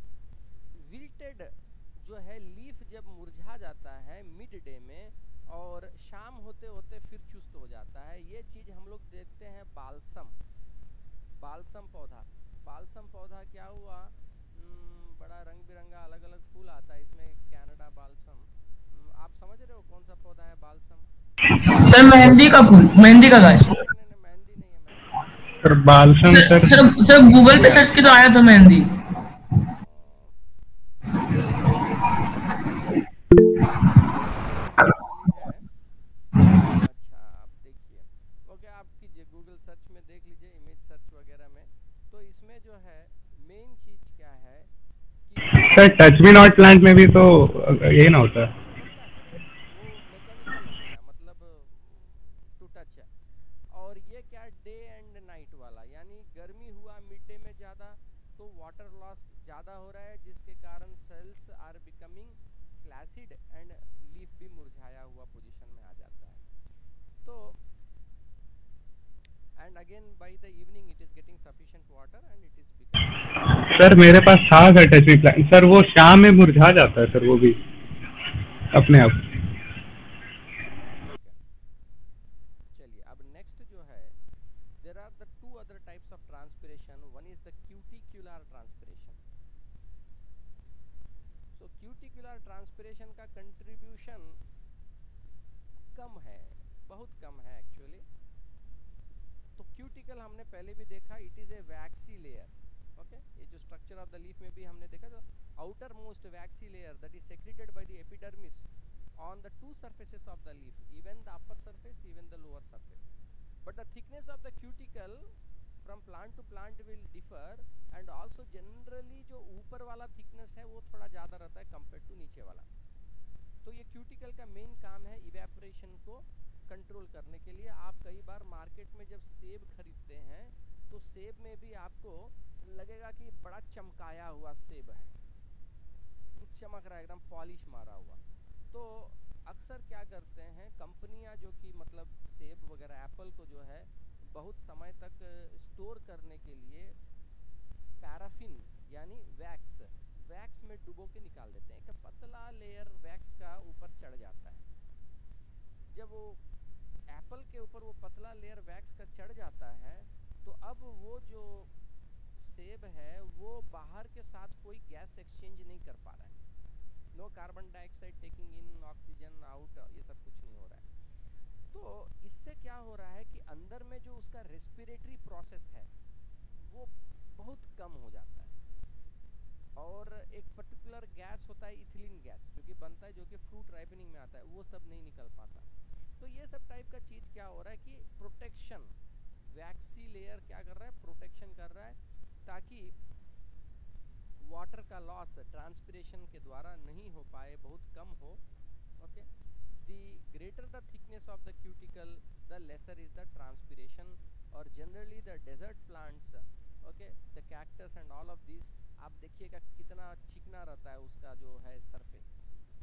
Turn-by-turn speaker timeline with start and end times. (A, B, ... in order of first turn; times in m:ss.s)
0:00.8-0:10.4 A
0:11.4-0:21.1 A
0:21.7-0:23.7 B
0:23.0-0:25.2 A
0:25.6-0:26.9 C
0:26.3-0:28.9 B
0:27.5-0:27.8 C
0:29.8-0:30.4 A
0:31.2-0:35.6 A
0:36.6-0:44.7 A
0:45.3-0:46.1 A
0:45.6-0:48.5 C
0:48.5-0:53.1 A
0:53.7-1:06.4 A
1:07.2-1:07.6 A
1:09.6-1:13.2 A
1:13.7-1:17.6 C
1:18.1-1:19.0 A
1:18.7-1:19.2 C
1:21.0-1:21.4 A
1:22.7-1:24.1 A
1:24.8-1:29.2 A
1:31.6-1:34.4 A
1:36.0-1:38.0 A
1:39.6-1:48.7 A
1:49.2-1:53.1 A
1:53.6-1:55.3 A
1:55.8-2:02.7 A
2:03.6-2:15.2 A
2:16.4-2:27.0 A
2:28.0-2:34.7 A
2:35.9-2:36.4 A
2:37.1-2:41.7 A
2:42.4-2:46.4 A
2:47.2-2:50.9 A
2:51.7-2:55.9 A
2:56.6-2:58.6 A
2:59.8-3:05.7 A
3:06.2-3:08.9 A
3:09.5-3:12.9 A
3:14.4-3:18.4 A
3:19.0-3:19.3 A
3:19.8-3:32.4 A